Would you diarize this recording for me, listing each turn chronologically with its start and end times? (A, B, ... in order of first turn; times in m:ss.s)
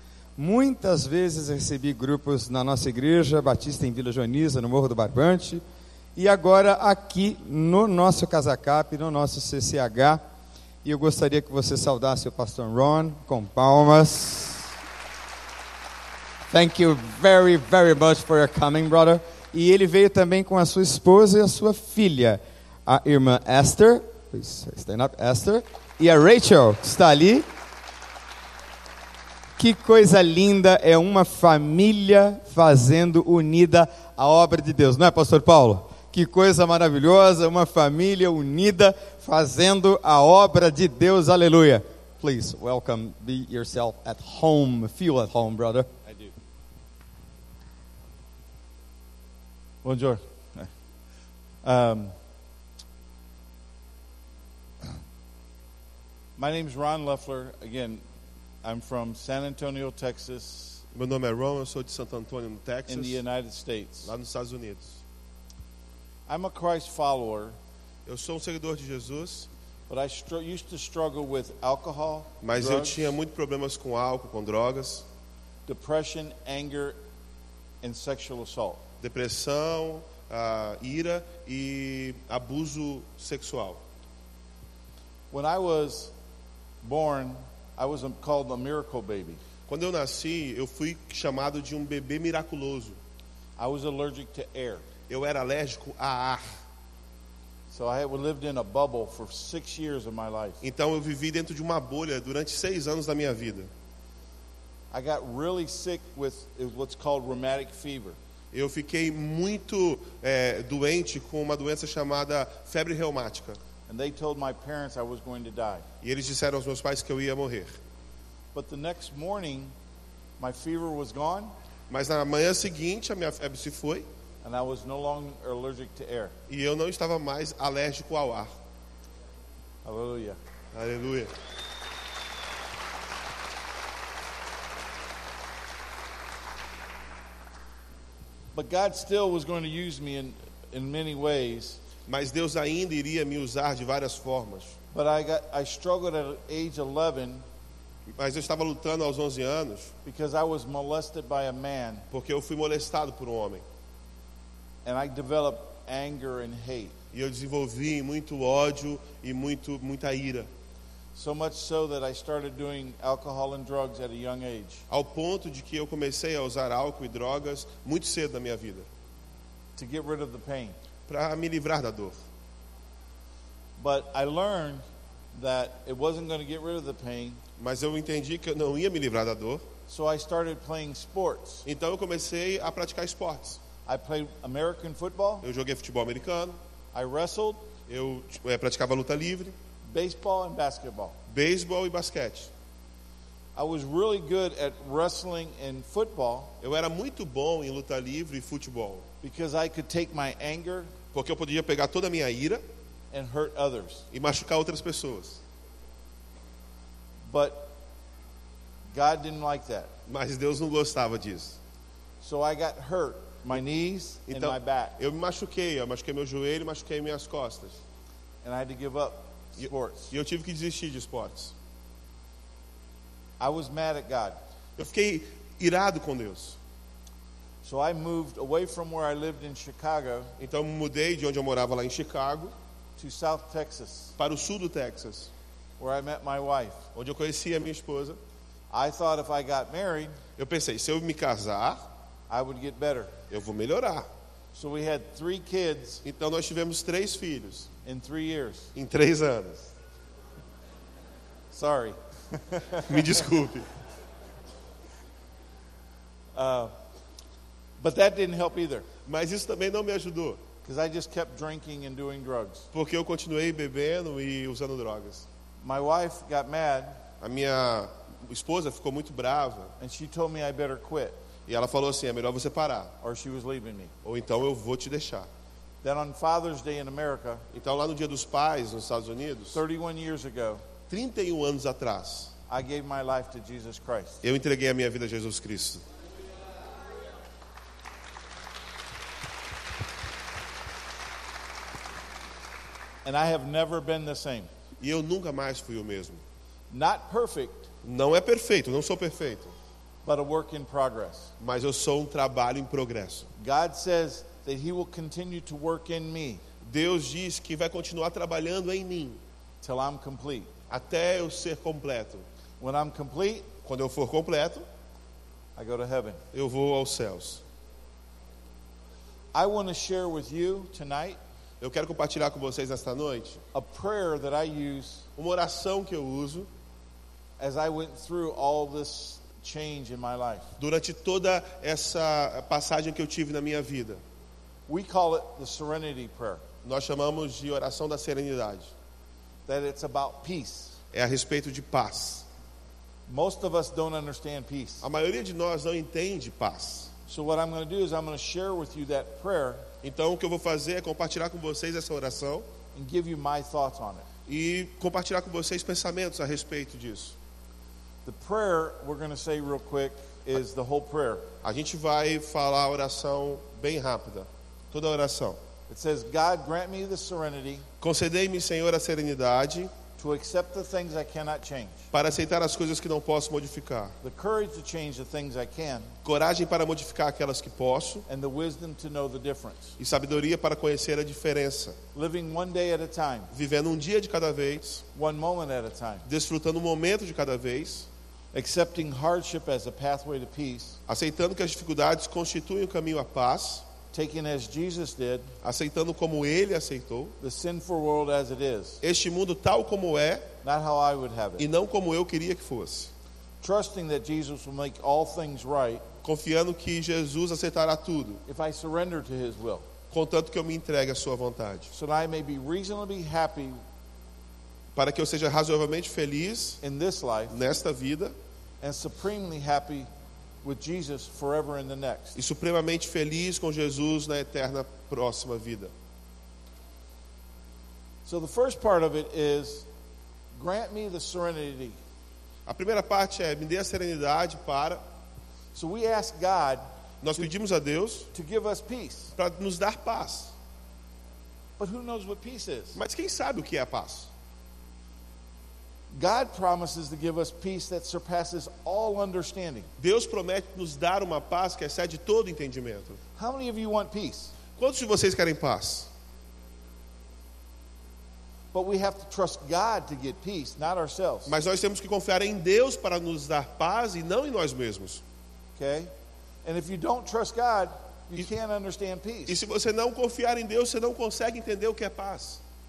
0:00.4-0:05.6 A
0:06.2-0:10.2 A
0:10.8-0:14.7 A
0:16.5-0:27.5 A
0:29.6-0:45.9 A
0:46.0-0:46.3 B
0:49.8-0:50.7 B
0:51.6-0:52.1 B
0:56.4-0:58.0 B
0:58.6-1:00.8 B
1:00.9-1:03.2 C
1:02.9-1:04.1 B
1:04.0-1:05.0 C
1:06.3-1:07.6 B
1:08.1-1:09.5 C
1:09.9-1:13.2 B
1:12.4-1:15.0 C
1:15.7-1:17.0 B
1:17.8-1:18.8 B
1:19.0-1:23.8 C
1:25.3-1:26.1 B
1:26.8-1:29.4 B
1:29.7-1:33.0 C
1:33.6-1:34.9 B
1:35.1-1:36.4 C
1:37.7-1:40.6 B
1:40.6-1:43.7 C
1:44.9-1:48.2 B
1:48.5-1:53.6 C
1:53.9-1:55.9 B
1:56.0-1:57.7 C
1:58.5-1:59.7 B
2:00.4-2:01.5 B
2:01.9-2:04.1 C
2:04.4-2:06.4 B
2:06.5-2:08.5 C
2:09.8-2:10.4 B
2:10.7-2:11.3 C
2:18.5-2:21.8 B
2:22.1-2:24.8 C
2:24.9-2:27.4 B
2:28.1-2:29.9 C
2:30.0-2:32.1 B
2:32.1-2:33.6 C
2:34.8-2:37.0 B
2:37.1-2:40.5 C
2:41.1-2:44.8 B
2:44.9-2:48.9 C
2:49.8-2:50.8 B
2:51.1-2:52.2 C
2:53.8-2:54.8 B
2:55.3-2:57.4 B
2:57.6-2:59.6 C
2:59.9-3:01.7 B
3:01.7-3:03.6 C
3:03.8-3:05.4 B
3:05.4-3:06.6 C
3:06.9-3:07.7 B
3:07.9-3:09.5 C
3:09.9-3:11.2 B
3:11.3-3:12.5 C
3:13.6-3:16.5 B
3:16.6-3:19.0 C
3:19.2-3:20.9 B
3:21.1-3:22.6 C
3:23.1-3:24.1 B
3:24.1-3:25.4 C
3:27.3-3:27.8 B
3:28.9-3:29.9 B
3:30.1-3:31.6 C
3:32.2-3:35.0 B
3:34.3-3:37.8 C
3:38.4-3:40.1 B
3:39.6-3:41.5 C
3:43.4-3:44.4 B
3:44.8-3:46.6 C
3:47.6-3:50.3 B
3:50.4-3:52.5 C
3:53.0-3:54.1 B
3:54.2-3:55.3 C
3:55.8-3:56.8 B
3:57.0-3:58.2 C
3:58.7-4:00.2 B
4:00.4-4:01.8 C
4:02.3-4:03.2 B
4:03.3-4:04.1 C
4:04.5-4:06.0 B
4:06.0-4:07.7 C
4:07.8-4:08.7 B
4:08.8-4:09.7 C
4:11.5-4:13.0 B
4:12.9-4:13.7 C
4:16.3-4:16.7 B
4:17.8-4:18.9 B
4:19.1-4:20.4 C
4:20.6-4:22.7 B
4:22.7-4:25.3 C
4:25.6-4:27.0 B
4:27.2-4:29.7 C
4:29.8-4:31.2 B
4:31.5-4:32.9 C
4:33.0-4:33.9 B
4:34.0-4:35.3 C
4:35.8-4:37.4 B
4:37.5-4:39.6 C
4:39.5-4:40.6 B
4:40.9-4:42.3 C
4:42.5-4:44.2 B
4:44.2-4:45.8 C
4:53.0-4:54.5 B
4:54.8-4:56.2 C
4:56.7-4:57.7 B
4:57.8-4:59.5 C
5:00.0-5:01.3 B
5:01.4-5:03.3 C
5:03.4-5:06.4 B
5:06.6-5:09.2 C
5:09.6-5:10.5 B
5:10.7-5:12.2 C
5:12.6-5:13.5 B
5:13.6-5:14.6 C
5:15.6-5:16.2 B
5:16.3-5:17.4 C
5:19.3-5:21.2 B
5:21.6-5:23.4 C
5:23.5-5:25.1 B
5:25.2-5:26.5 C
5:27.4-5:30.5 B
5:30.6-5:34.0 C
5:34.7-5:36.4 B
5:36.6-5:38.7 C
5:39.5-5:40.8 B
5:40.9-5:42.3 C
5:43.1-5:44.8 B
5:44.8-5:46.9 C
5:47.1-5:49.6 B
5:49.8-5:52.5 C
5:52.7-5:54.1 B
5:54.3-5:57.2 C
5:58.0-6:01.3 B
6:01.4-6:05.4 C
6:05.7-6:07.7 B
6:07.8-6:09.7 C
6:10.0-6:11.9 B
6:11.9-6:13.9 C
6:14.0-6:15.9 B
6:16.0-6:18.0 C
6:18.1-6:19.7 B
6:19.8-6:21.8 C
6:22.0-6:23.3 B
6:23.3-6:24.8 C
6:24.9-6:26.1 B
6:26.1-6:27.9 C
6:28.3-6:30.8 B
6:30.9-6:33.7 C
6:33.9-6:35.3 B
6:35.4-6:37.1 C
6:37.2-6:38.8 B
6:38.8-6:40.3 C
6:40.4-6:41.5 B
6:41.4-6:42.9 C
6:43.4-6:45.8 B
6:46.0-6:48.2 C
6:48.3-6:49.7 B
6:49.9-6:51.7 C
6:51.7-6:53.6 B
6:54.8-6:56.6 C
6:56.6-6:57.4 B
6:57.3-6:58.2 C
6:58.6-6:59.9 B
7:00.4-7:02.2 B
7:02.2-7:05.7 C
7:08.0-7:09.7 B
7:10.4-7:11.8 B
7:12.5-7:14.8 C
7:15.5-7:16.6 B
7:17.0-7:18.1 C
7:18.1-7:19.1 B
7:19.2-7:20.3 C
7:21.6-7:22.8 B
7:22.8-7:24.1 C
7:25.9-7:29.7 B
7:29.8-7:33.0 C
7:33.2-7:34.3 B
7:34.6-7:35.9 C
7:38.5-7:41.3 B
7:41.3-7:45.0 C
7:45.6-7:45.9 B
7:46.4-7:49.4 B
7:49.3-7:52.4 C